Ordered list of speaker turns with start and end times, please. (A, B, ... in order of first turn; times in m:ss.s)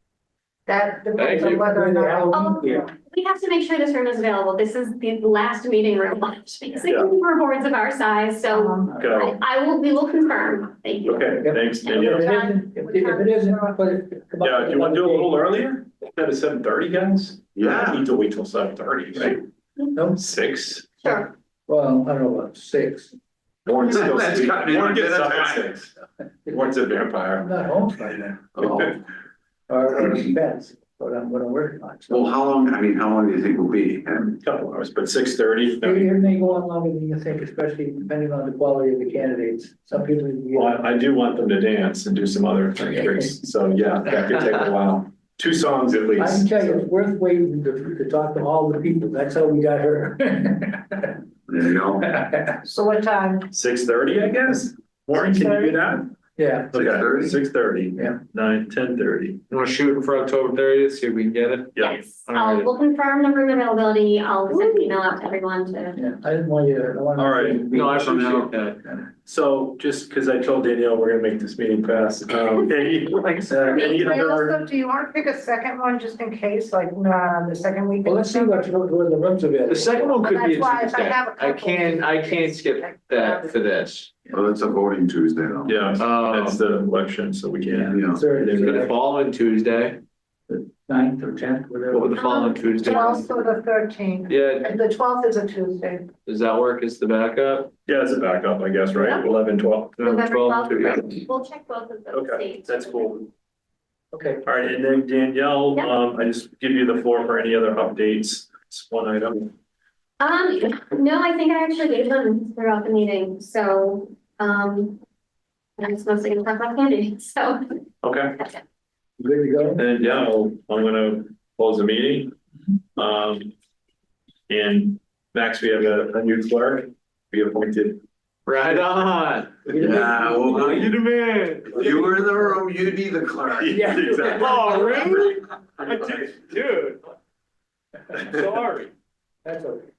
0:00.7-0:02.9 A
0:01.2-0:01.6 B
0:01.3-0:02.9 C
0:02.3-0:12.9 D
0:08.5-0:09.0 A
0:09.0-0:09.3 E
0:11.0-0:12.3 E
0:11.4-0:15.4 C
0:12.3-0:13.8 A
0:14.4-0:19.4 E
0:17.5-0:18.1 F
0:19.9-0:20.2 C
0:20.2-0:20.9 E
0:21.0-0:21.3 D
0:21.7-0:23.1 C
0:23.6-0:25.9 E
0:23.9-0:25.6 F
0:26.5-0:27.5 E
0:27.4-0:28.8 C
0:28.6-0:29.0 F
0:29.7-0:32.2 C
0:32.1-0:34.3 F
0:34.4-0:36.1 E
0:35.8-0:40.8 C
0:40.5-0:46.6 E
0:46.2-0:51.2 C
0:51.5-0:52.1 F
0:52.1-0:52.6 C
0:52.6-0:53.5 A
0:53.5-0:56.1 E
0:55.2-0:55.8 A
0:56.4-0:57.1 C
0:56.7-0:59.4 E
0:56.7-0:57.4 F
0:59.5-1:02.7 B
1:01.8-1:06.0 D
1:04.6-1:04.9 A
1:05.9-1:09.1 C
1:07.2-1:07.6 E
1:07.7-1:08.8 B
1:09.2-1:14.6 E
1:13.5-1:18.7 A
1:18.0-1:20.2 C
1:19.7-1:24.1 B
1:20.2-1:23.5 A
1:24.3-1:25.8 F
1:25.6-1:28.6 E
1:26.0-1:26.6 B
1:27.7-1:28.9 C
1:27.9-1:28.2 F
1:28.3-1:30.0 B
1:30.5-1:32.2 C
1:31.9-1:33.2 B
1:32.2-1:33.2 D
1:32.8-1:36.1 A
1:34.3-1:34.7 B
1:36.2-1:37.7 B
1:37.8-1:40.1 E
1:38.9-1:39.2 D
1:40.0-1:43.2 D
1:40.0-1:41.1 B
1:42.1-1:43.3 E
1:44.1-1:44.4 C
1:44.4-1:49.5 E
1:50.2-1:55.0 D
1:55.8-1:57.8 D
1:58.0-1:58.3 E
1:59.2-1:59.8 C
1:59.8-2:02.3 E
2:03.0-2:03.5 E
2:04.5-2:08.0 E
2:08.4-2:09.6 B
2:09.7-2:10.9 C
2:09.8-2:11.0 F
2:10.6-2:12.2 B
2:11.7-2:14.1 F
2:13.6-2:15.0 E
2:13.7-2:15.3 C
2:14.3-2:17.0 B
2:18.1-2:18.9 B
2:19.4-2:19.9 C